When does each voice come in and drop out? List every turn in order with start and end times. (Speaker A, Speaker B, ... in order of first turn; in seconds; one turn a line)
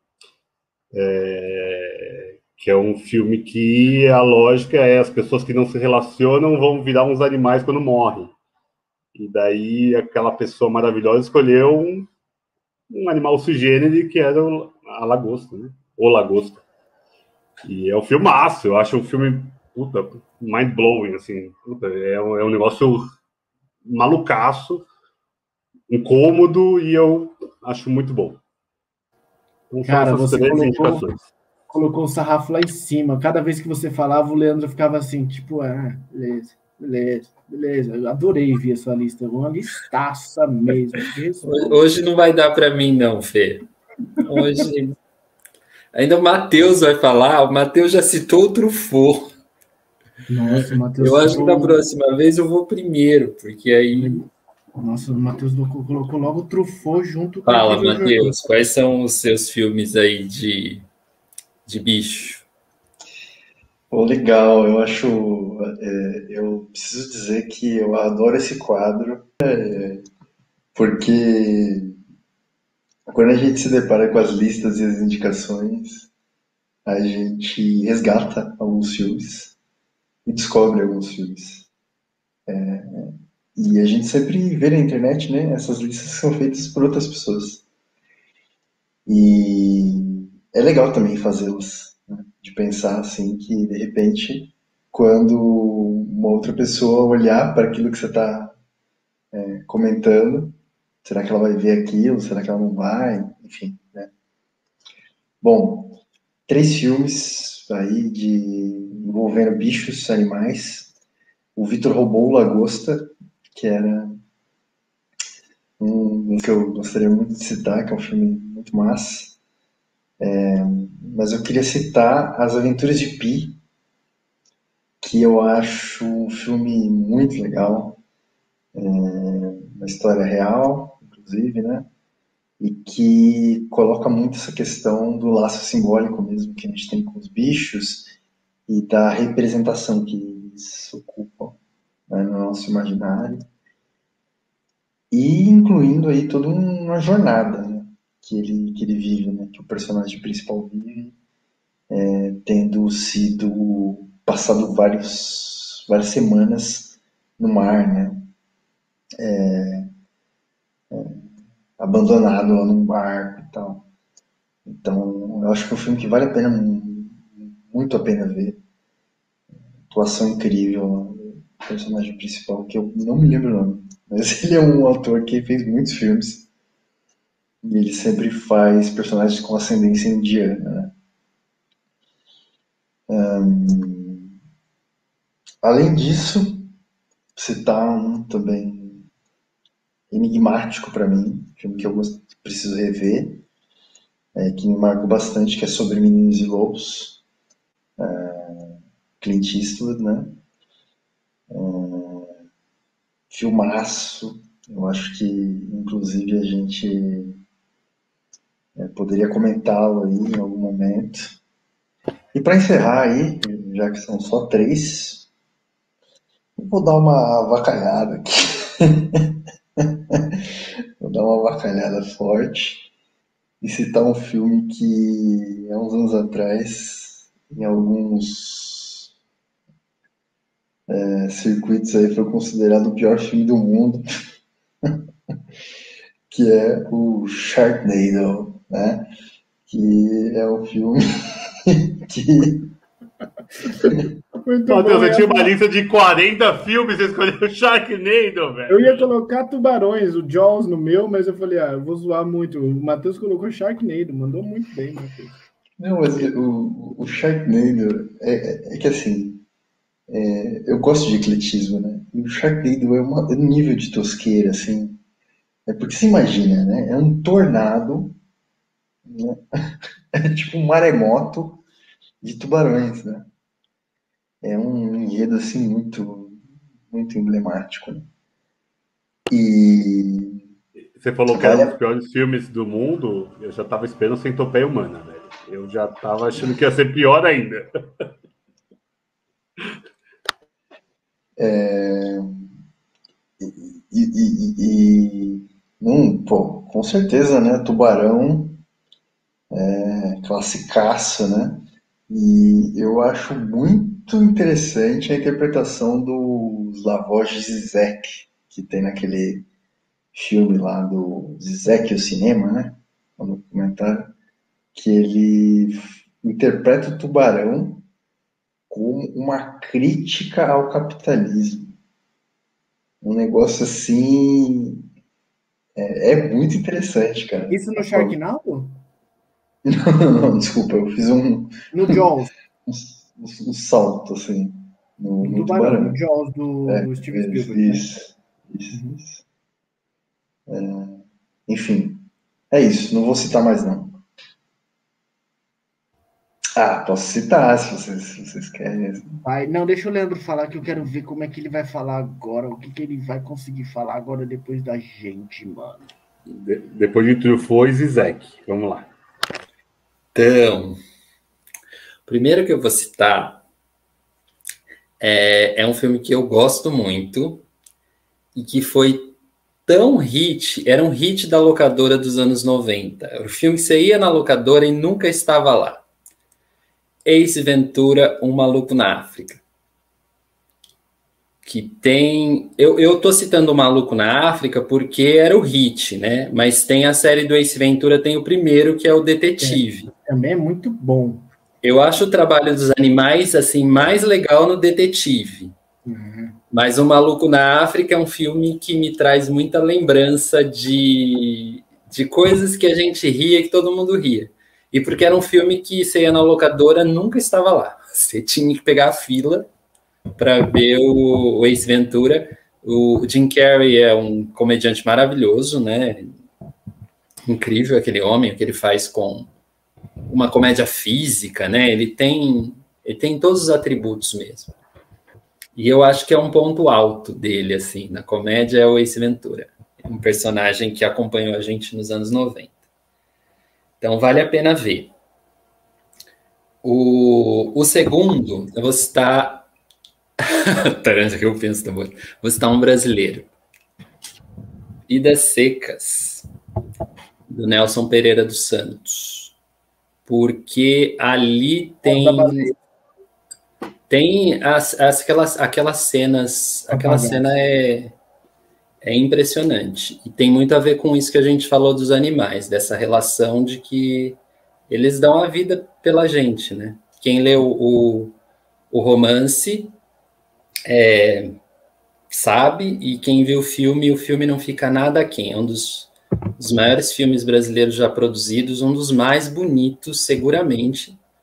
Speaker A: 0.9-8.3
Speaker A: 9.1-12.1
Speaker A: 12.9-16.6
Speaker A: 17.6-23.0
Speaker A: 23.8-24.9
Speaker A: 25.9-28.4
Speaker A: 29.7-31.3
Speaker B: 29.8-31.0
Speaker B: 31.7-41.8
Speaker C: 41.4-43.6
Speaker C: 44.2-45.0
Speaker C: 45.9-49.3
Speaker B: 50.3-51.8
Speaker C: 51.0-54.2
Speaker B: 53.9-54.2
Speaker B: 54.8-58.5
Speaker C: 57.4-60.9
Speaker C: 61.6-62.5
Speaker D: 63.9-70.0
Speaker D: 70.7-71.9
Speaker D: 73.1-76.1
Speaker D: 76.8-79.6
Speaker D: 80.2-81.7
Speaker D: 82.5-87.6
Speaker D: 89.1-98.5
Speaker D: 99.3-104.1
Speaker D: 105.4-110.9
Speaker D: 111.5-114.2
Speaker D: 115.8-119.4
Speaker D: 120.2-123.6
Speaker D: 125.0-128.0
Speaker D: 128.7-131.9
Speaker D: 132.6-138.1
Speaker D: 138.7-141.6
Speaker D: 142.1-143.4
Speaker D: 145.1-151.1
Speaker D: 151.9-158.3
Speaker D: 159.2-159.9
Speaker D: 160.9-161.2
Speaker D: 161.8-163.8
Speaker D: 164.7-168.6
Speaker D: 169.9-176.5
Speaker D: 177.6-180.9
Speaker D: 183.1-184.3
Speaker D: 185.6-186.7
Speaker D: 187.3-189.1
Speaker D: 190.1-193.4
Speaker D: 194.3-197.2
Speaker D: 198.0-200.4
Speaker D: 201.5-202.3
Speaker D: 203.3-207.4
Speaker D: 208.8-211.4
Speaker D: 212.3-215.3
Speaker D: 216.6-219.3
Speaker D: 221.0-222.9
Speaker D: 223.6-229.1
Speaker D: 230.9-234.0
Speaker D: 236.3-239.1
Speaker D: 239.7-241.0
Speaker D: 242.1-242.7
Speaker B: 244.4-245.5
Speaker A: 244.7-249.1
Speaker B: 248.7-255.4
Speaker D: 255.8-259.4
Speaker D: 260.1-265.0
Speaker D: 265.7-268.2
Speaker D: 269.1-269.4
Speaker D: 270.2-271.6
Speaker D: 272.2-273.3
Speaker D: 274.4-278.1
Speaker D: 279.3-280.4
Speaker A: 280.9-287.6
Speaker D: 281.3-281.8
Speaker D: 291.4-292.5
Speaker D: 293.4-298.6
Speaker D: 299.5-309.4
Speaker D: 310.1-314.1
Speaker D: 314.7-317.9
Speaker D: 318.7-321.7
Speaker D: 323.0-324.8
Speaker D: 325.8-328.1
Speaker B: 327.5-328.7
Speaker D: 329.6-331.6
Speaker B: 331.7-332.3
Speaker D: 332.6-336.0
Speaker B: 335.2-337.8
Speaker D: 336.7-339.2
Speaker D: 340.5-344.0
Speaker D: 346.6-349.2
Speaker B: 349.2-355.9
Speaker A: 356.3-358.9
Speaker C: 360.1-360.8
Speaker C: 362.1-363.4
Speaker C: 365.0-367.5
Speaker C: 368.3-375.8
Speaker C: 377.0-379.4
Speaker C: 381.4-389.9
Speaker B: 389.4-391.3
Speaker C: 391.6-395.5
Speaker B: 395.9-396.4
Speaker C: 396.5-409.5
Speaker C: 410.2-416.1
Speaker C: 417.3-419.3
Speaker C: 420.1-424.5
Speaker C: 425.5-432.5
Speaker C: 433.8-434.9
Speaker C: 436.6-439.5
Speaker C: 440.7-443.3
Speaker C: 444.9-446.2
Speaker C: 447.3-449.4
Speaker C: 450.0-452.5
Speaker B: 451.8-452.5
Speaker C: 453.9-458.0
Speaker B: 456.7-457.2
Speaker C: 458.8-468.2
Speaker C: 468.7-469.8
Speaker C: 470.7-471.3
Speaker C: 472.1-481.0